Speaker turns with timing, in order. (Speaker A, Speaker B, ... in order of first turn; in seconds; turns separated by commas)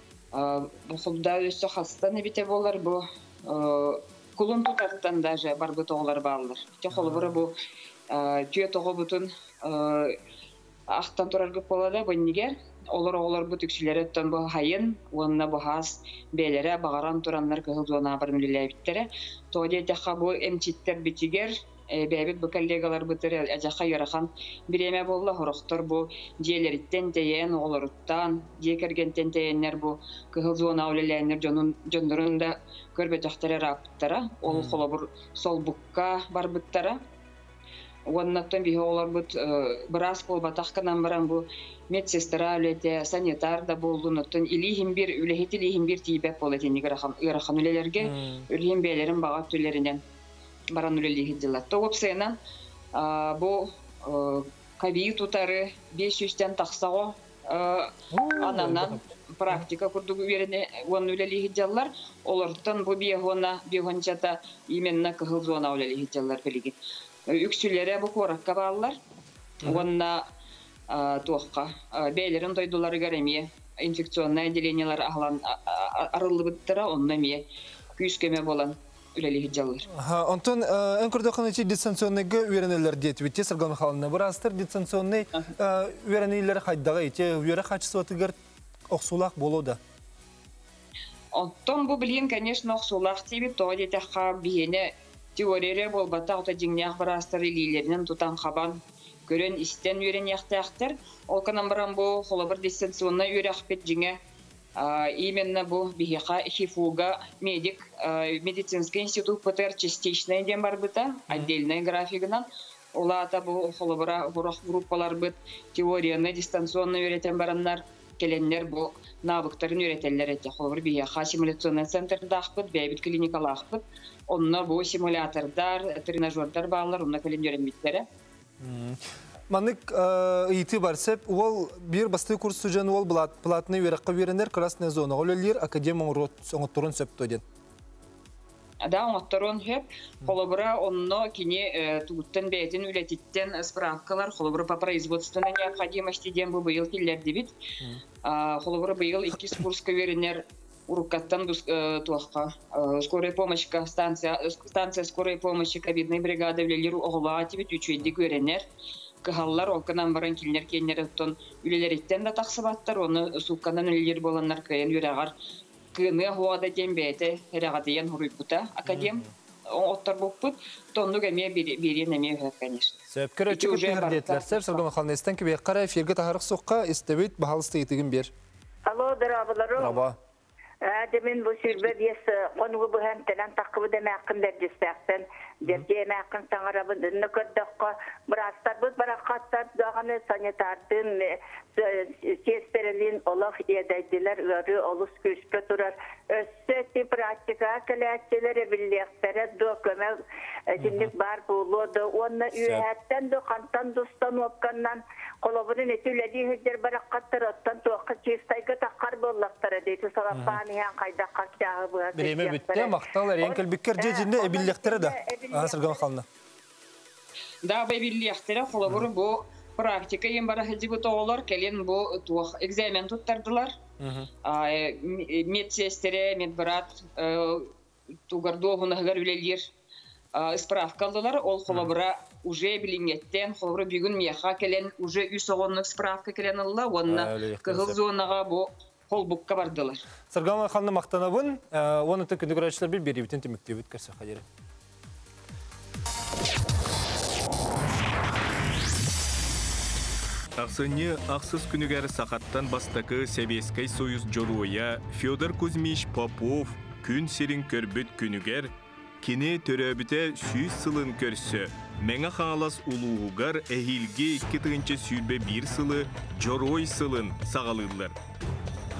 Speaker A: 0.3-7.5, Speaker B: 6.9-7.4, Speaker A: 8.1-10.1, Speaker A: 10.9-37.0, Speaker B: 34.5-34.8, Speaker A: 38.1-50.0, Speaker B: 48.0-48.5, Speaker A: 50.7-52.4, Speaker A: 52.9-66.8, Speaker B: 58.1-59.0, Speaker A: 67.3-69.0, Speaker A: 69.6-70.2, Speaker A: 70.9-77.4, Speaker A: 78.0-79.8, Speaker B: 79.9-88.3, Speaker B: 88.9-89.8, Speaker A: 91.3-104.2, Speaker A: 104.8-128.1, Speaker B: 128.6-129.0, Speaker B: 129.5-137.4, Speaker A: 138.8-147.5, Speaker A: 148.2-158.6, Speaker A: 159.2-165.3, Speaker A: 165.9-173.0, Speaker B: 168.9-169.3, Speaker B: 173.1-178.3, Speaker A: 173.5-174.8, Speaker C: 178.9-180.0, Speaker B: 179.8-180.2, Speaker C: 180.8-200.2, Speaker C: 200.7-216.0, Speaker B: 200.8-201.1, Speaker B: 210.3-210.6, Speaker B: 212.1-216.2, Speaker A: 217.6-223.7, Speaker B: 224.0-224.3, Speaker A: 224.4-227.7, Speaker A: 228.3-229.7, Speaker A: 230.3-240.0, Speaker B: 237.1-238.0, Speaker B: 240.3-244.4, Speaker D: 250.6-258.7, Speaker D: 259.2-268.1